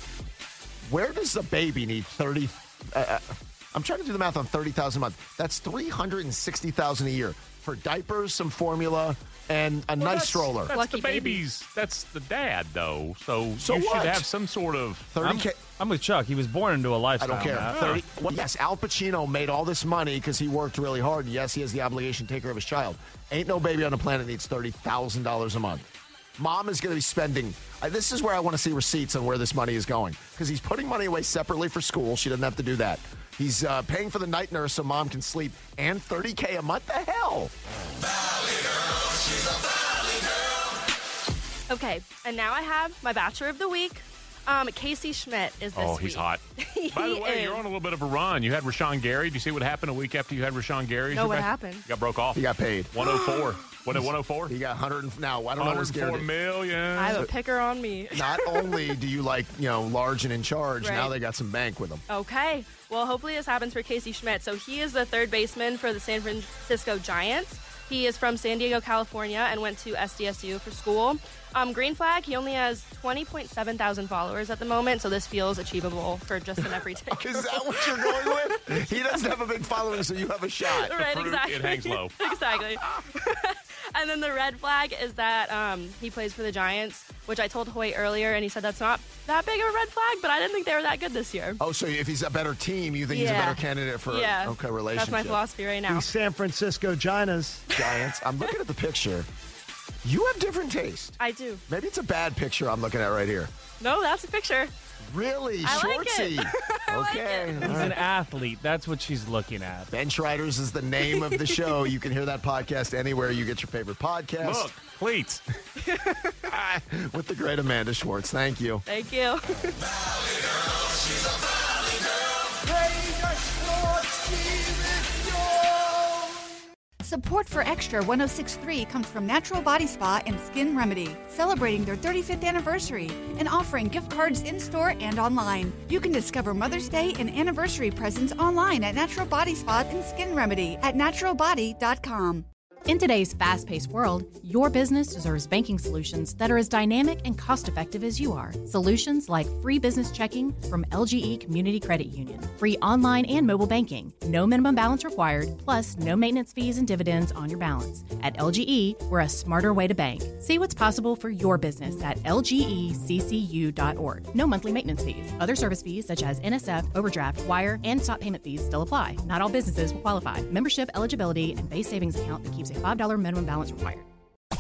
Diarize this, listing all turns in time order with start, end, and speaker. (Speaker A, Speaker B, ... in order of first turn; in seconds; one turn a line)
Speaker A: 0.9-10.7
Speaker B: 10.0-15.1
Speaker C: 10.7-11.4
Speaker A: 13.6-14.3
Speaker A: 15.1-15.6
Speaker D: 15.2-17.8
Speaker A: 17.2-37.5
Speaker B: 17.6-18.0
Speaker C: 41.7-47.6
Speaker B: 45.8-54.5
Speaker C: 51.1-51.9
Speaker A: 52.4-52.9
Speaker C: 53.0-53.5
Speaker A: 53.9-56.3
Speaker B: 55.6-57.2
Speaker C: 57.0-58.9
Speaker A: 58.1-62.0
Speaker C: 60.8-61.1
Speaker C: 62.1-79.2
Speaker A: 76.6-81.0
Speaker C: 80.7-91.6
Speaker B: 80.9-82.2
Speaker A: 91.6-95.4
Speaker C: 93.1-96.1
Speaker A: 96.0-97.1
Speaker A: 97.7-99.3
Speaker C: 97.7-98.5
Speaker A: 100.0-103.5
Speaker C: 101.2-101.6
Speaker C: 103.8-104.7
Speaker A: 105.1-108.0
Speaker C: 105.6-107.8
Speaker D: 107.6-109.9
Speaker A: 109.9-114.7
Speaker C: 111.0-111.8
Speaker B: 114.4-115.4
Speaker C: 115.8-116.4
Speaker A: 116.5-118.8
Speaker C: 118.9-119.8
Speaker A: 122.7-125.9
Speaker E: 127.0-142.5
Speaker F: 142.9-174.1